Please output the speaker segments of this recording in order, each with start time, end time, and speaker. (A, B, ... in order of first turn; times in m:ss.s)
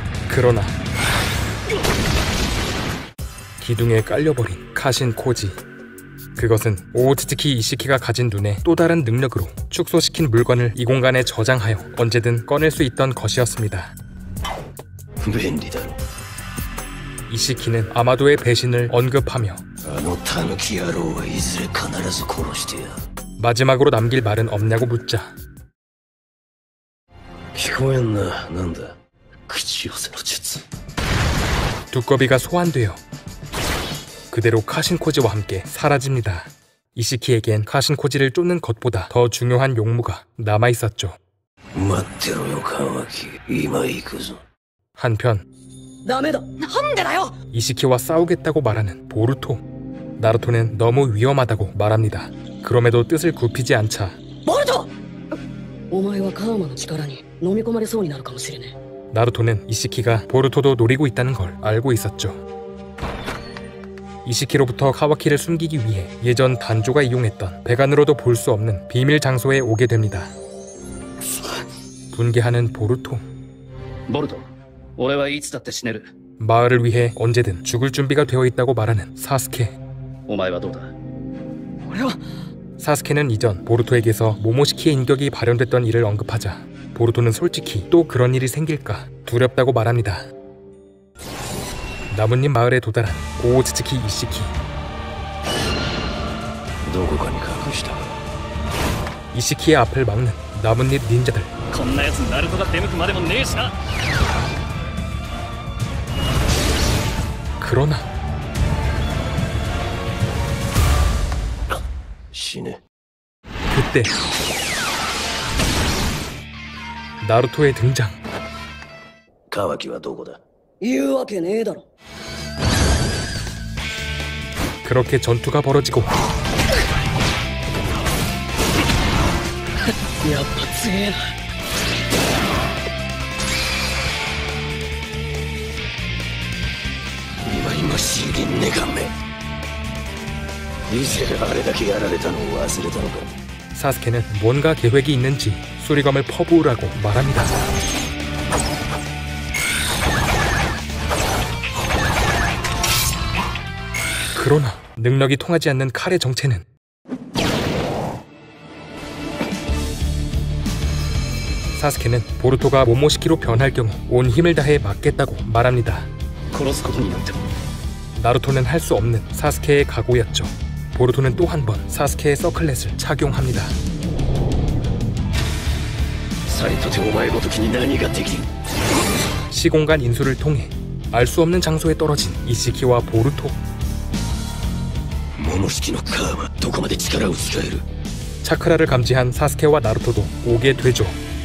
0:00.3-0:00.7 A
0:03.6-0:05.6 A
0:06.4-0:13.9 A
0:15.2-0:16.0 B
0:17.3-0:19.6 A
0:19.8-0:23.0 B
0:23.4-0:25.3 A
0:27.5-0:29.0 B
0:29.5-0:30.6 B
0:31.9-0:33.0 A
0:34.3-0:41.2 A
0:41.8-0:44.4 B
0:45.0-0:45.4 A
0:46.0-0:47.4 C
0:47.5-0:49.6 A
0:50.2-0:54.2 A
0:54.5-0:54.9 C
0:55.9-0:58.8 C
0:59.1-1:02.4 A
1:04.2-1:10.3 A
1:12.1-1:13.2 A
1:14.1-1:14.5 D
1:15.0-1:16.1 D
1:16.4-1:19.8 A
1:20.3-1:20.9 D
1:22.8-1:30.3 A
1:32.1-1:34.5 A
1:36.8-1:38.1 B
1:39.3-1:41.5 A
1:41.7-1:43.7 D
1:47.6-1:48.1 A
1:52.3-1:52.8 B
1:53.7-1:54.1 A
1:57.2-1:58.2 A
1:59.5-2:00.4 B
2:00.8-2:01.9 C
2:04.8-2:06.1 A
2:10.2-2:11.3 C
2:17.4-2:19.1 B
2:20.9-2:23.3 B
2:23.7-2:27.5 A
2:34.3-2:36.7 A
2:41.8-2:46.1 A
2:46.5-2:47.3 D
2:48.2-2:53.8 A
2:56.5-2:58.5 B
2:59.5-3:03.6 A
3:05.4-3:07.8 B
3:08.4-3:11.2 A